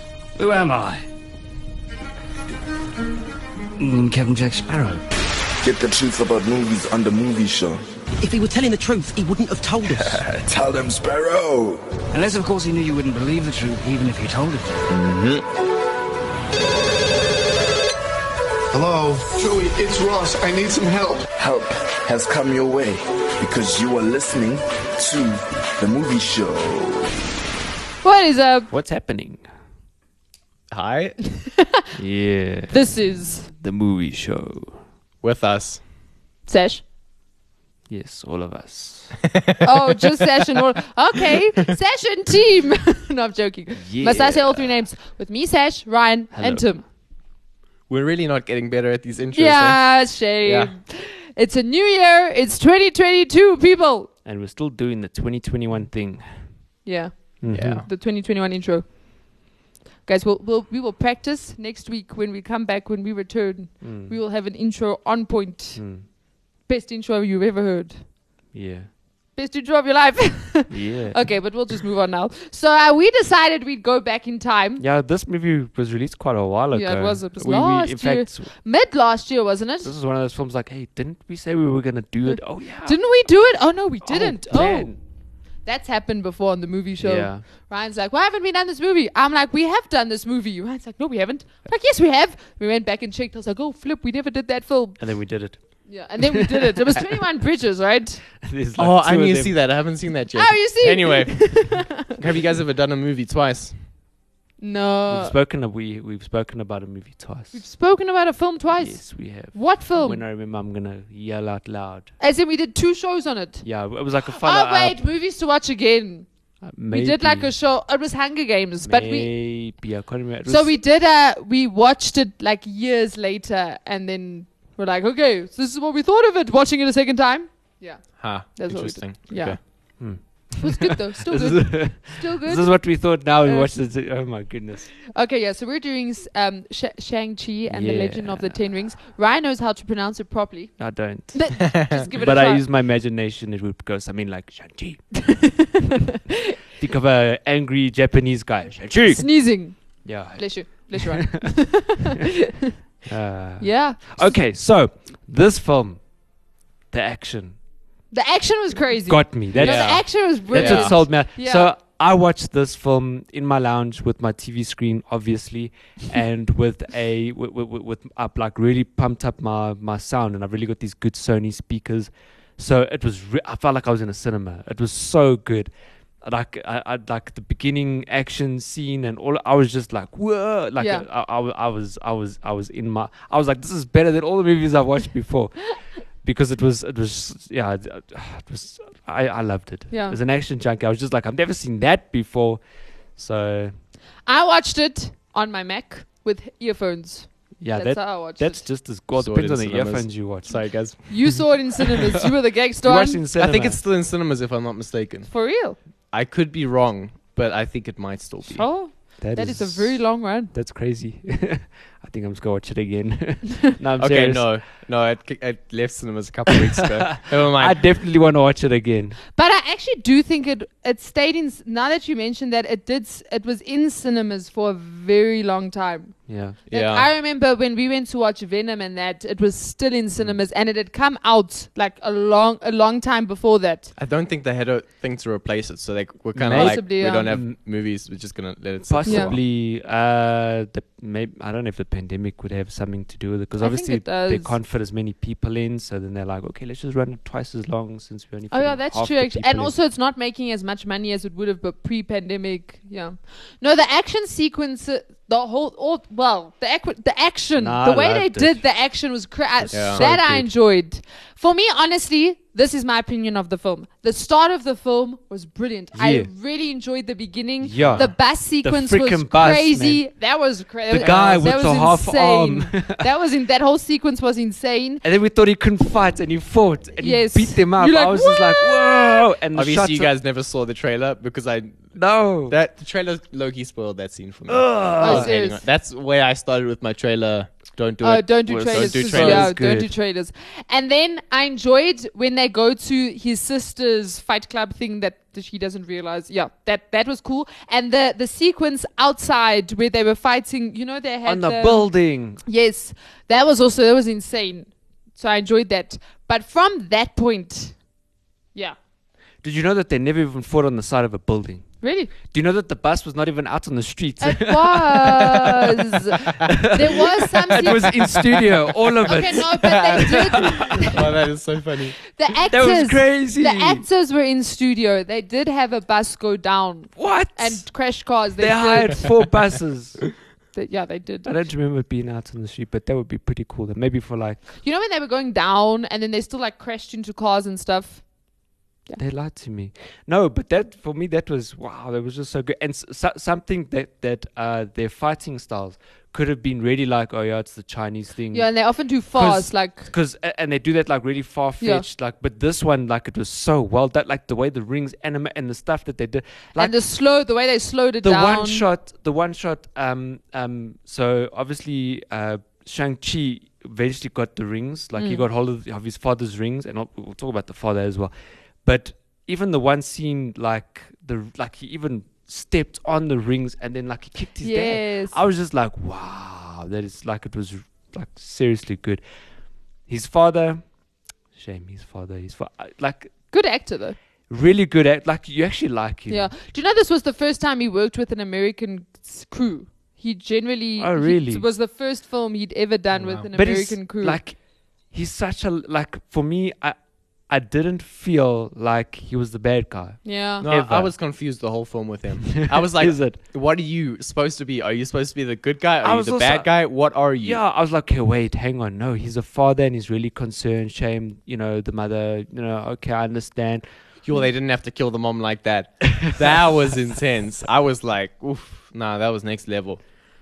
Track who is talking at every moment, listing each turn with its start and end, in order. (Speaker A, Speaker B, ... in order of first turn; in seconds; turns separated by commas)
Speaker A: 0.4-1.0, Speaker A: 3.8-5.0, Speaker B: 5.6-7.8, Speaker C: 8.2-10.2, Speaker B: 10.0-11.8, Speaker A: 12.1-14.9, Speaker B: 14.9-15.4, Speaker D: 18.7-21.3, Speaker B: 21.3-27.1, Speaker E: 28.0-28.7, Speaker F: 28.7-29.4, Speaker G: 30.7-31.4, Speaker F: 31.9-34.8, Speaker E: 32.7-33.5, Speaker G: 35.2-35.8, Speaker E: 36.5-36.8, Speaker F: 37.9-39.2, Speaker E: 39.6-46.8, Speaker F: 43.8-44.8, Speaker F: 46.3-46.7, Speaker G: 47.9-50.7, Speaker E: 49.3-54.1, Speaker F: 54.2-56.5, Speaker E: 56.8-59.4, Speaker F: 57.4-57.8, Speaker G: 57.5-57.9, Speaker E: 60.0-68.1, Speaker F: 63.8-64.2, Speaker F: 65.8-66.0, Speaker F: 68.5-68.9, Speaker E: 69.3-74.8, Speaker F: 70.7-71.5, Speaker F: 74.8-78.5, Speaker E: 76.7-79.9, Speaker F: 79.8-83.0, Speaker E: 82.3-85.0, Speaker F: 84.0-85.0, Speaker E: 85.6-95.0, Speaker F: 87.0-87.4, Speaker F: 95.0-96.9, Speaker E: 95.5-98.2, Speaker F: 98.4-99.8, Speaker G: 98.8-103.9, Speaker E: 100.3-102.0, Speaker E: 104.6-105.3, Speaker F: 105.1-107.6, Speaker E: 107.5-110.2, Speaker F: 108.8-112.1, Speaker E: 112.2-113.7, Speaker F: 113.6-115.0, Speaker E: 114.3-116.2, Speaker F: 116.6-117.5, Speaker E: 116.9-119.3, Speaker F: 118.8-120.8, Speaker E: 120.5-133.7, Speaker G: 128.2-129.6, Speaker F: 130.0-134.9, Speaker E: 135.1-142.6, Speaker F: 137.7-138.6, Speaker F: 140.8-145.5, Speaker G: 141.7-142.1, Speaker E: 145.3-145.7, Speaker F: 146.8-151.5, Speaker E: 149.1-152.7, Speaker F: 153.1-157.6, Speaker E: 153.6-154.4, Speaker E: 158.1-161.7, Speaker F: 159.1-192.6, Speaker G: 159.5-161.1, Speaker E: 180.8-181.0, Speaker E: 189.9-190.2, Speaker F: 193.1-193.7, Speaker E: 194.2-198.7, Speaker F: 197.6-201.4, Speaker G: 199.2-201.5, Speaker E: 201.1-203.2, Speaker F: 202.8-203.8, Speaker G: 203.4-205.3, Speaker E: 205.3-205.8, Speaker G: 206.1-208.7, Speaker E: 208.4-210.5, Speaker F: 209.2-214.6, Speaker G: 214.0-217.9, Speaker F: 217.0-219.2, Speaker E: 219.3-233.9, Speaker F: 226.3-226.6, Speaker G: 226.7-227.1, Speaker G: 233.9-239.4, Speaker F: 236.3-237.6, Speaker E: 236.5-237.2, Speaker F: 238.8-249.7, Speaker E: 239.1-239.3, Speaker E: 243.6-244.5, Speaker E: 248.5-275.0, Speaker F: 257.6-258.6, Speaker F: 259.6-260.5, Speaker G: 259.7-260.0, Speaker F: 265.9-266.3, Speaker F: 267.6-270.1, Speaker G: 267.8-268.1, Speaker F: 270.9-273.1, Speaker F: 275.0-280.1, Speaker E: 277.0-279.2, Speaker G: 279.5-289.5, Speaker F: 281.9-282.6, Speaker F: 284.5-285.3, Speaker E: 285.0-285.6, Speaker E: 288.0-307.9, Speaker F: 288.4-289.9, Speaker F: 301.2-302.4, Speaker F: 309.4-315.6, Speaker E: 311.8-312.1, Speaker E: 314.2-317.9, Speaker F: 316.3-320.9, Speaker G: 317.6-319.1, Speaker E: 319.1-320.9, Speaker G: 320.3-322.0, Speaker E: 322.1-329.1, Speaker F: 322.5-323.9, Speaker F: 326.9-330.1, Speaker E: 330.5-331.3, Speaker F: 331.2-334.4, Speaker E: 334.6-338.2, Speaker F: 339.0-356.7, Speaker E: 348.3-349.9, Speaker E: 351.6-351.9, Speaker E: 356.6-358.7, Speaker F: 358.0-379.0, Speaker E: 364.9-365.2, Speaker E: 374.4-375.2, Speaker F: 379.9-380.7, Speaker F: 381.3-383.3, Speaker E: 383.3-384.0, Speaker F: 384.3-386.3, Speaker E: 386.1-394.2, Speaker F: 390.8-391.4, Speaker G: 393.0-393.2, Speaker F: 393.3-400.9, Speaker E: 400.0-400.4, Speaker G: 400.4-407.4, Speaker F: 402.3-403.2, Speaker F: 405.8-413.6, Speaker G: 414.0-419.8